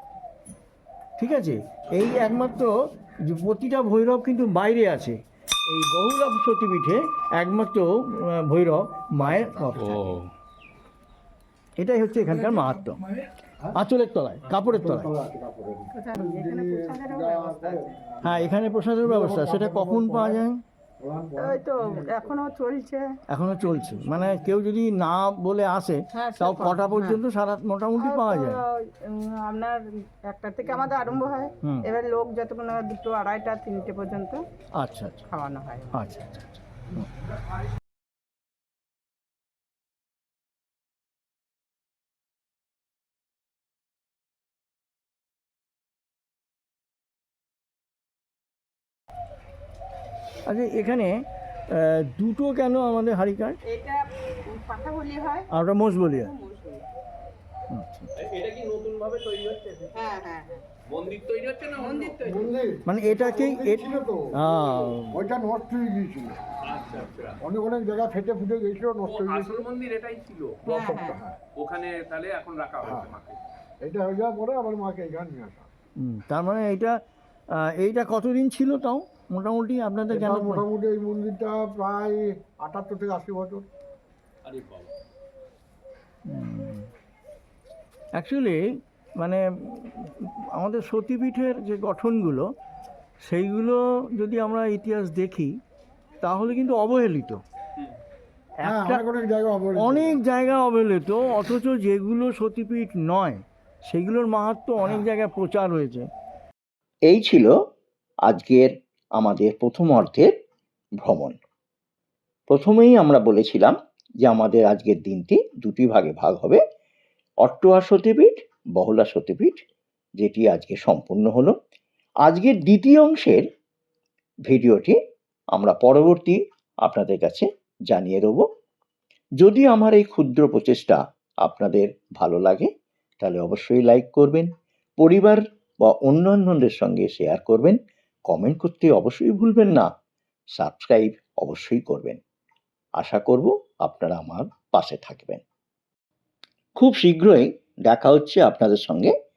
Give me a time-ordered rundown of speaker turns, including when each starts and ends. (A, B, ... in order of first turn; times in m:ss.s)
0:01.2-0:02.7 A
0:03.3-0:05.2 A
0:05.7-0:10.1 A
0:09.2-0:09.7 B
0:09.8-0:10.3 C
0:11.8-0:13.0 A
0:13.8-0:15.1 A
0:14.5-0:20.4 B
0:16.0-0:18.0 D
0:18.2-0:20.6 A
0:21.0-0:22.4 B
0:21.4-0:23.0 D
0:23.3-0:28.6 A
0:26.1-0:27.2 D
0:28.0-0:34.4 D
0:34.8-0:35.3 A
0:35.3-0:36.0 D
0:35.9-0:36.4 A
0:50.5-0:51.1 A
0:51.7-0:53.6 A
0:53.6-0:55.5 D
0:55.5-0:56.3 A
0:56.1-0:56.9 D
0:57.7-0:58.1 A
0:58.2-0:59.9 C
0:59.9-1:00.7 D
1:00.9-1:02.4 C
1:01.7-1:02.3 D
1:02.2-1:04.4 B
1:02.9-1:05.2 A
1:05.1-1:06.4 B
1:06.6-1:07.4 C
1:07.4-1:09.7 B
1:09.1-1:10.6 C
1:10.7-1:11.2 D
1:10.7-1:11.4 B
1:11.6-1:13.4 C
1:12.8-1:13.2 B
1:13.8-1:15.7 B
1:16.0-1:16.9 A
1:17.6-1:20.6 A
1:20.1-1:23.7 B
1:24.4-1:24.9 C
1:26.3-1:26.9 A
1:28.2-1:28.6 A
1:29.2-1:32.5 A
1:33.3-1:35.6 A
1:36.2-1:37.4 A
1:38.6-1:39.0 A
1:38.6-1:40.2 B
1:39.8-1:46.1 A
1:47.1-1:47.5 E
1:48.3-1:50.3 E
1:51.0-1:51.4 E
1:52.5-1:56.6 E
1:57.4-1:59.6 E
2:00.2-2:01.6 E
2:02.3-2:03.4 E
2:04.5-2:05.0 E
2:05.5-2:08.4 E
2:09.4-2:12.7 E
2:13.2-2:19.9 E
2:20.6-2:22.2 E
2:23.0-2:25.4 E
2:26.8-2:29.1 E